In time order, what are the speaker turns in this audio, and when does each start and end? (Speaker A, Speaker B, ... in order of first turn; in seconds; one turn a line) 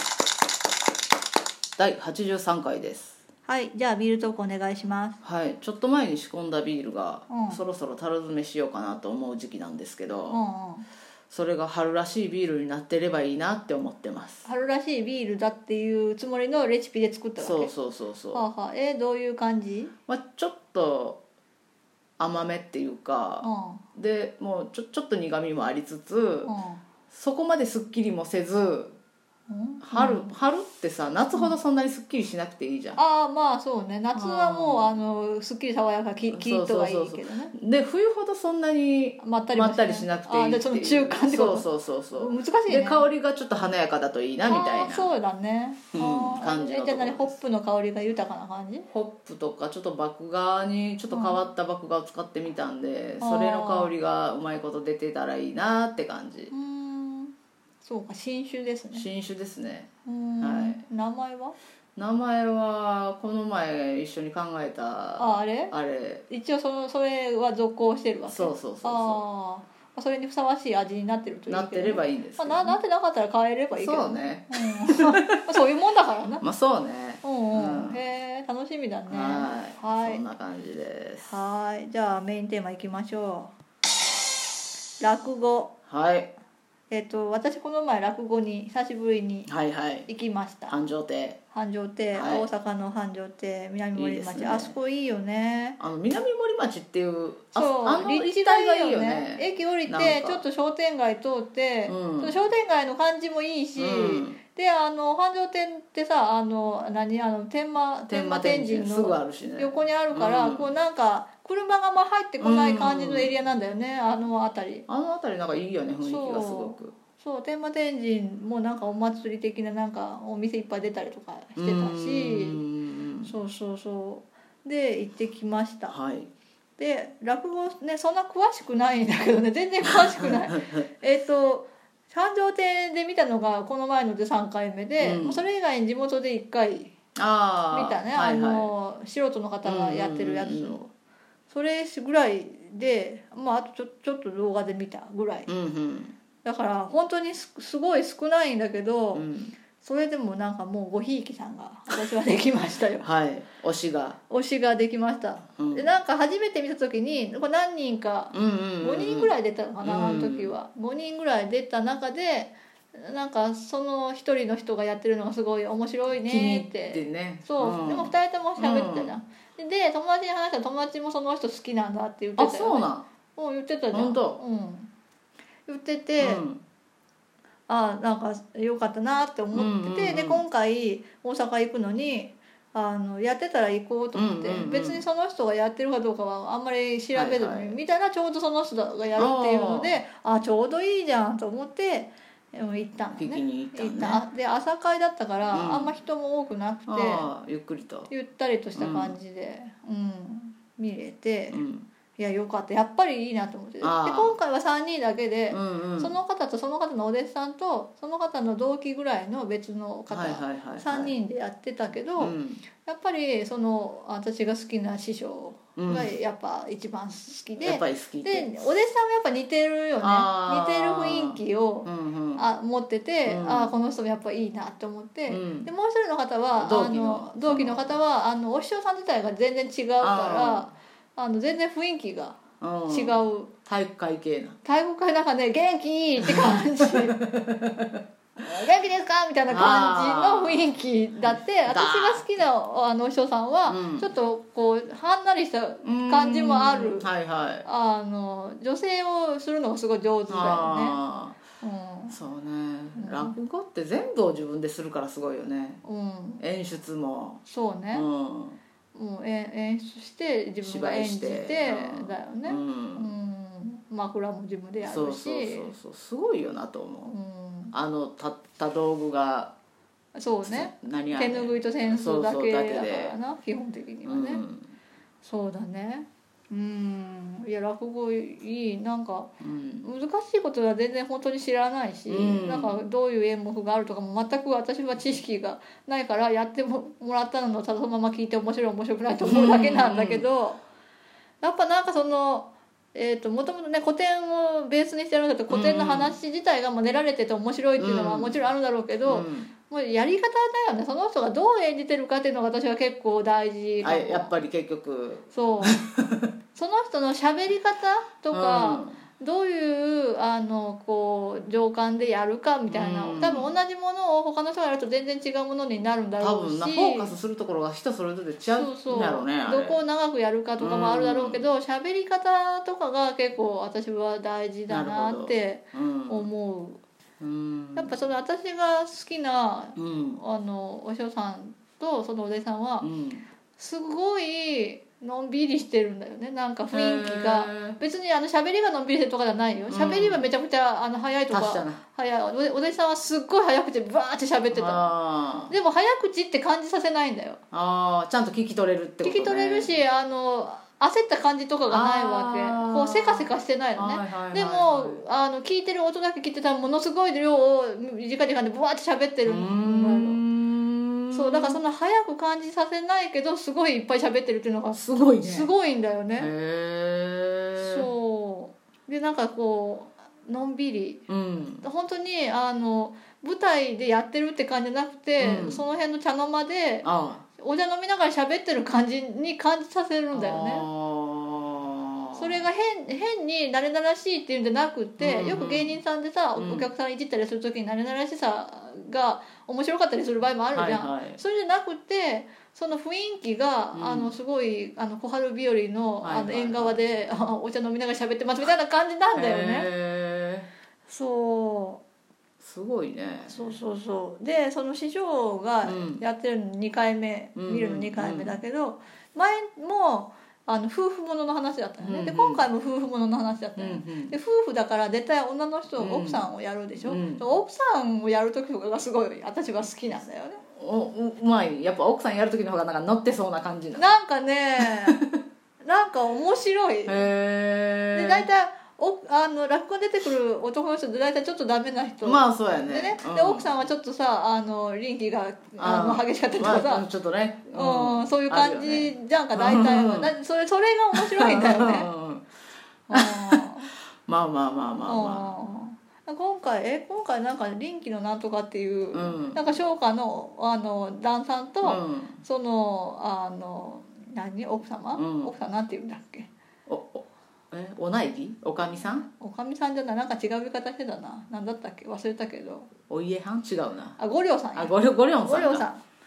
Speaker A: 1.8-3.2
Speaker B: 3.5-5.2
Speaker A: 5.2-10.4
Speaker B: 7.3-7.6
Speaker B: 10.3-10.9
Speaker A: 11.3-14.5
Speaker B: 14.4-17.7
Speaker A: 17.4-18.4
Speaker B: 18.3-19.9
Speaker A: 20.1-21.2
Speaker A: 22.2-26.5
Speaker B: 23.4-23.8
Speaker B: 26.4-26.8
Speaker A: 27.1-28.9
Speaker B: 29.5-30.3
Speaker A: 29.8-33.0
Speaker B: 33.0-37.5
Speaker A: 34.1-35.0
Speaker A: 36.3-45.1
Speaker B: 39.2-43.0
Speaker B: 44.5-48.9
Speaker A: 45.9-47.4
Speaker A: 48.9-56.5
Speaker B: 51.1-51.4
Speaker B: 53.2-53.9
Speaker B: 56.5-59.0
Speaker A: 58.9-59.9
Speaker B: 60.0-61.5
Speaker A: 60.4-60.8
Speaker A: 62.0-66.2
Speaker B: 65.2-65.7
Speaker B: 66.3-76.4
Speaker A: 68.3-69.2
Speaker A: 71.5-72.8
Speaker A: 73.8-75.7
Speaker A: 76.4-78.0
Speaker B: 77.2-80.2
Speaker A: 79.1-81.4
Speaker B: 81.2-83.5
Speaker B: 85.0-85.7
Speaker A: 85.9-86.3
Speaker B: 86.9-89.5
Speaker A: 89.5-90.1
Speaker B: 90.1-90.7
Speaker A: 90.7-91.4
Speaker B: 91.5-95.8
Speaker A: 92.1-92.5
Speaker A: 93.9-94.7
Speaker A: 95.8-100.4
Speaker B: 97.5-114.8
Speaker A: 101.8-102.4
Speaker A: 103.8-104.4
Speaker A: 108.1-110.7
Speaker A: 112.4-113.3
Speaker A: 114.9-116.9
Speaker B: 116.0-122.6
Speaker A: 121.6-123.3
Speaker B: 123.2-126.0
Speaker A: 125.9-126.3
Speaker B: 126.8-136.9
Speaker A: 130.2-130.8
Speaker A: 135.0-135.4
Speaker A: 137.2-138.7
Speaker B: 137.7-140.9
Speaker A: 139.6-140.8
Speaker B: 141.5-145.5
Speaker A: 145.5-146.1
Speaker B: 146.4-153.1
Speaker A: 149.1-149.6
Speaker A: 153.0-154.2
Speaker B: 154.3-174.9
Speaker A: 155.6-155.9
Speaker A: 158.3-160.5
Speaker A: 166.2-169.1
Speaker A: 172.4-173.1
Speaker A: 173.9-174.4
Speaker B: 175.7-176.4
Speaker A: 176.2-176.6
Speaker B: 177.7-197.3
Speaker A: 179.5-180.4
Speaker A: 184.1-185.0
Speaker A: 187.1-187.8
Speaker A: 189.2-190.0
Speaker A: 193.2-194.2
Speaker A: 195.5-195.9
Speaker A: 196.9-198.1
Speaker B: 198.1-201.6
Speaker A: 198.7-199.2
Speaker A: 201.5-201.9
Speaker B: 202.2-233.5
Speaker A: 203.8-204.4
Speaker A: 205.5-206.1
Speaker A: 210.1-211.1
Speaker A: 212.2-212.7
Speaker A: 215.8-216.1
Speaker A: 217.6-218.6
Speaker A: 220.0-222.4
Speaker A: 223.2-223.7
Speaker A: 225.3-225.7
Speaker A: 226.6-227.9
Speaker A: 230.0-230.7
Speaker A: 232.6-234.6
Speaker B: 234.6-237.2
Speaker A: 236.2-238.0
Speaker B: 238.4-247.1
Speaker A: 239.5-240.7
Speaker A: 241.7-242.3
Speaker A: 243.7-244.1
Speaker A: 245.8-247.7
Speaker B: 247.6-251.0
Speaker A: 250.3-251.4
Speaker B: 251.6-252.2
Speaker A: 252.1-255.8
Speaker B: 252.9-253.3
Speaker B: 255.8-256.4
Speaker A: 256.4-258.6
Speaker B: 257.4-258.1
Speaker B: 258.9-265.7
Speaker A: 260.6-263.1
Speaker A: 264.8-267.1
Speaker B: 267.1-267.7
Speaker A: 267.7-269.5
Speaker B: 270.1-274.4
Speaker A: 270.4-273.2
Speaker A: 274.0-274.7
Speaker B: 275.2-290.6
Speaker A: 279.4-279.9
Speaker A: 282.1-282.8
Speaker A: 289.2-290.2
Speaker B: 291.4-304.3
Speaker A: 295.5-296.1
Speaker A: 297.8-298.4
Speaker A: 299.1-299.5
Speaker A: 303.8-306.3
Speaker B: 305.3-305.8
Speaker B: 306.5-317.1
Speaker A: 308.3-309.0
Speaker A: 312.7-313.5
Speaker A: 316.2-319.8
Speaker B: 318.5-326.8
Speaker A: 320.6-321.4
Speaker A: 324.7-326.3
Speaker A: 327.2-328.0
Speaker B: 327.8-332.9
Speaker A: 329.8-330.2
Speaker A: 332.8-333.2
Speaker B: 333.6-344.9
Speaker A: 336.7-337.8
Speaker A: 339.7-340.3
Speaker A: 341.3-341.8
Speaker A: 344.5-345.5
Speaker B: 345.5-347.4
Speaker A: 347.5-349.8
Speaker B: 349.0-360.2
Speaker A: 351.7-355.0
Speaker A: 359.2-361.6
Speaker B: 361.1-366.3
Speaker A: 364.7-365.5
Speaker A: 366.2-367.9
Speaker B: 367.6-371.1
Speaker A: 371.1-371.6
Speaker B: 371.6-380.6
Speaker A: 375.2-375.6
Speaker A: 376.8-377.2
Speaker A: 380.1-382.4
Speaker B: 382.1-399.7
Speaker A: 385.0-385.8
Speaker A: 386.4-386.7
Speaker A: 390.5-391.2
Speaker A: 393.7-394.1
Speaker A: 396.0-396.8
Speaker A: 399.1-400.5
Speaker B: 400.9-401.8
Speaker A: 402.4-403.6
Speaker B: 403.3-420.4
Speaker A: 405.6-406.0
Speaker A: 407.4-408.4
Speaker A: 411.8-412.4
Speaker A: 413.6-414.1
Speaker A: 415.8-416.3
Speaker A: 416.8-417.2
Speaker A: 420.5-423.9
Speaker B: 423.8-425.0
Speaker A: 424.6-425.2
Speaker B: 425.6-427.1
Speaker A: 426.9-428.3
Speaker B: 427.9-436.9
Speaker A: 432.0-433.5
Speaker A: 435.6-440.1
Speaker B: 437.5-441.9
Speaker A: 440.9-442.2
Speaker B: 442.9-443.7
Speaker A: 442.9-443.5
Speaker A: 444.1-445.4
Speaker B: 444.9-456.3
Speaker A: 448.9-449.5
Speaker A: 451.6-452.2
Speaker A: 454.9-455.3
Speaker A: 456.7-459.1
Speaker B: 459.1-462.7
Speaker A: 462.9-464.0
Speaker B: 464.0-465.8
Speaker A: 464.5-465.6